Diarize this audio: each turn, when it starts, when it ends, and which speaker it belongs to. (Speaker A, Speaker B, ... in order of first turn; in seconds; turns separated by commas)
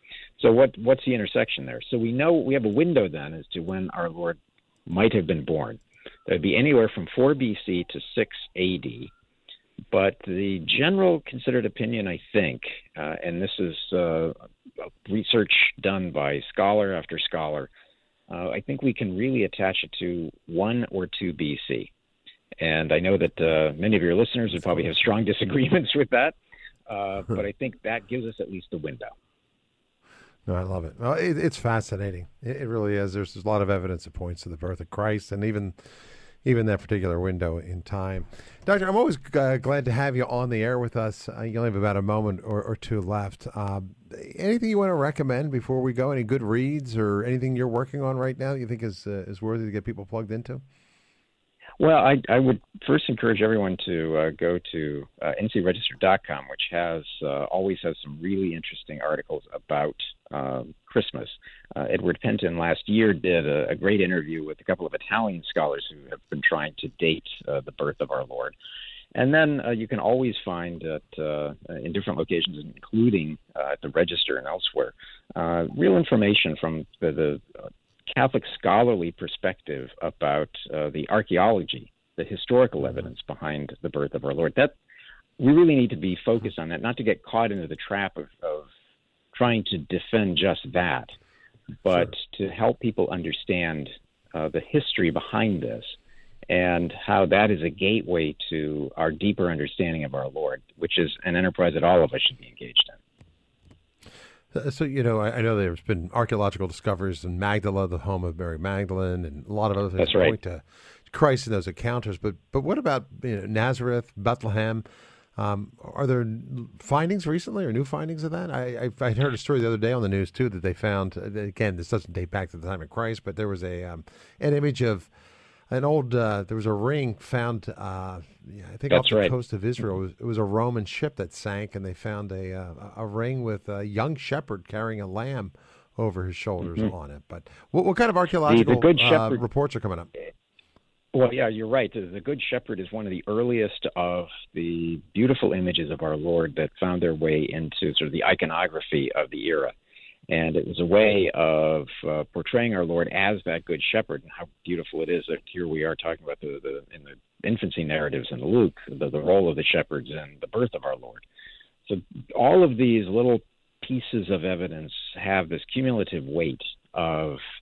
Speaker A: 0.4-9.1, Speaker A: 9.9-17.7, Speaker A: 18.3-21.9, Speaker A: 22.6-26.4, Speaker A: 26.9-29.1, Speaker B: 30.5-50.6, Speaker A: 51.8-68.5, Speaker A: 69.1-84.7, Speaker A: 85.4-88.7, Speaker A: 89.3-91.1, Speaker A: 91.8-96.0, Speaker A: 96.5-103.0, Speaker B: 104.5-125.1, Speaker A: 110.0-110.3, Speaker B: 125.7-140.1, Speaker A: 128.9-129.3, Speaker A: 138.4-139.4, Speaker A: 141.1-149.7, Speaker A: 150.3-161.2, Speaker A: 161.9-167.4